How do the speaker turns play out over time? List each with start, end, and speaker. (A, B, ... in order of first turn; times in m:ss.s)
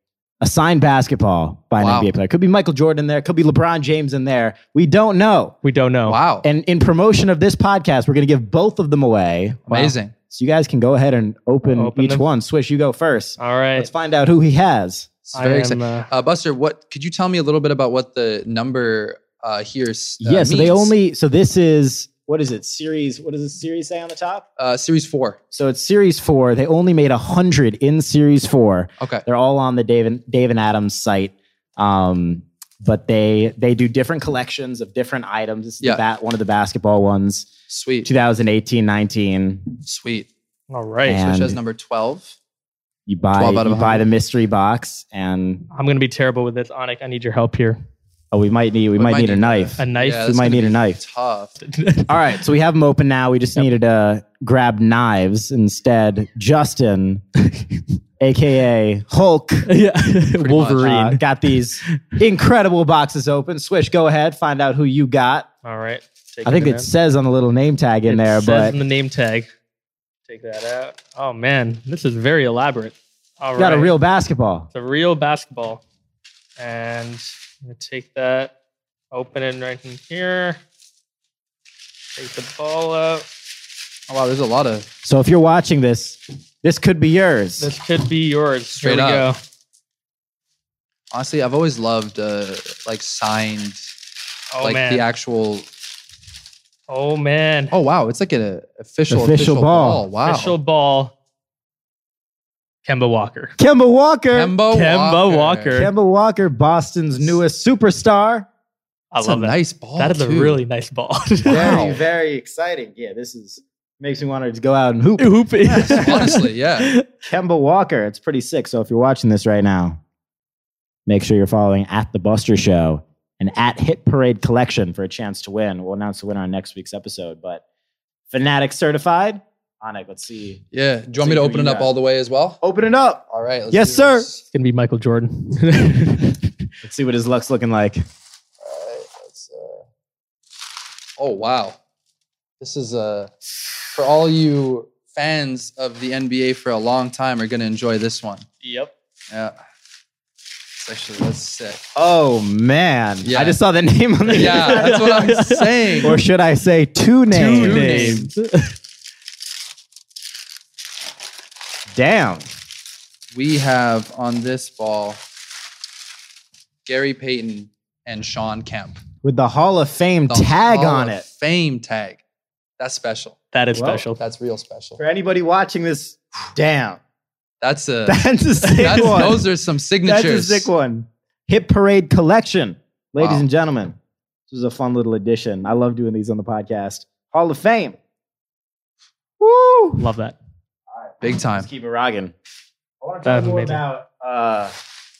0:00.4-0:05.6 A
0:01.8-0:02.1 B
0:05.6-0:06.2 C
0:06.0-0:06.4 B
0:06.4-0:15.1 A
0:09.7-0:10.1 B
0:11.7-0:12.3 C
0:13.4-0:13.9 C
0:15.3-0:20.9 B
0:15.3-0:16.1 C
0:20.2-0:24.4 A
0:24.6-0:25.4 B
0:25.5-0:37.5 A
0:37.7-0:38.1 B
0:38.0-0:39.8 A
0:39.8-0:40.3 B
0:40.7-0:41.2 C
0:41.1-0:41.6 A
0:41.2-0:42.4 B
0:43.1-0:45.6 A
0:43.4-0:44.0 B
0:45.7-0:47.8 C
0:48.3-0:51.0 A
0:49.0-0:51.6 B
0:49.8-0:50.3 C
0:51.6-0:52.2 C
0:52.1-0:57.2 A
0:58.2-0:59.7 A
0:59.7-1:02.2 C
1:00.4-1:00.9 B
1:00.8-1:05.5 A
1:05.6-1:06.9 C
1:06.4-1:08.8 A
1:08.1-1:09.5 C
1:10.3-1:13.9 C
1:13.6-1:14.7 A
1:14.7-1:15.8 C
1:16.6-1:18.5 C
1:19.1-1:20.6 C
1:22.2-1:23.3 C
1:24.1-1:24.9 B
1:25.0-1:27.7 A
1:27.6-1:29.4 C
1:28.8-1:29.3 B
1:31.1-1:33.9 B
1:34.5-1:35.0 C
1:34.6-1:35.7 B
1:36.9-1:37.7 C
1:37.7-1:40.6 B
1:39.1-1:40.0 A
1:40.2-1:41.1 C
1:42.8-1:43.5 C
1:43.6-1:44.6 A
1:44.3-1:45.8 B
1:44.7-1:45.9 C
1:45.7-1:48.5 A
1:49.1-1:51.9 C
1:49.2-1:50.6 B
1:51.5-1:52.0 B
1:51.5-1:56.3 A
1:55.2-1:57.1 C
1:55.9-1:57.0 B
1:57.3-2:00.0 A
2:01.1-2:07.6 A
2:08.3-2:10.6 A
2:10.7-2:12.6 B
2:11.2-2:11.9 A
2:12.6-2:14.3 A
2:13.3-2:14.4 B
2:14.5-2:16.5 C
2:16.8-2:18.0 A
2:18.6-2:19.8 B
2:21.2-2:21.8 B
2:22.6-2:23.3 B
2:23.9-2:28.5 B
2:28.6-2:28.9 C
2:30.8-2:31.8 B
2:32.0-2:35.0 A
2:33.2-2:33.6 B
2:34.3-2:36.2 C
2:34.3-2:36.2 B
2:36.0-2:38.3 A
2:37.3-2:38.8 C
2:37.4-2:38.3 B
2:42.0-2:42.5 A
2:43.3-2:45.2 B
2:46.9-2:49.0 B
2:49.2-2:51.2 A
2:50.3-2:52.2 B
2:52.8-2:53.4 B
2:53.5-2:54.2 C
2:53.8-2:54.0 A
2:54.2-2:55.0 B
2:55.0-2:57.0 A
2:57.6-2:58.2 B
2:58.1-2:59.4 A
2:58.6-2:59.3 C
2:58.8-3:00.7 B
3:00.0-3:04.0 A
3:03.2-3:03.5 B
3:04.5-3:08.0 A
3:09.4-3:10.1 A
3:10.0-3:10.4 C
3:10.9-3:12.3 A
3:11.2-3:11.7 B
3:13.0-3:14.8 A
3:13.2-3:13.8 C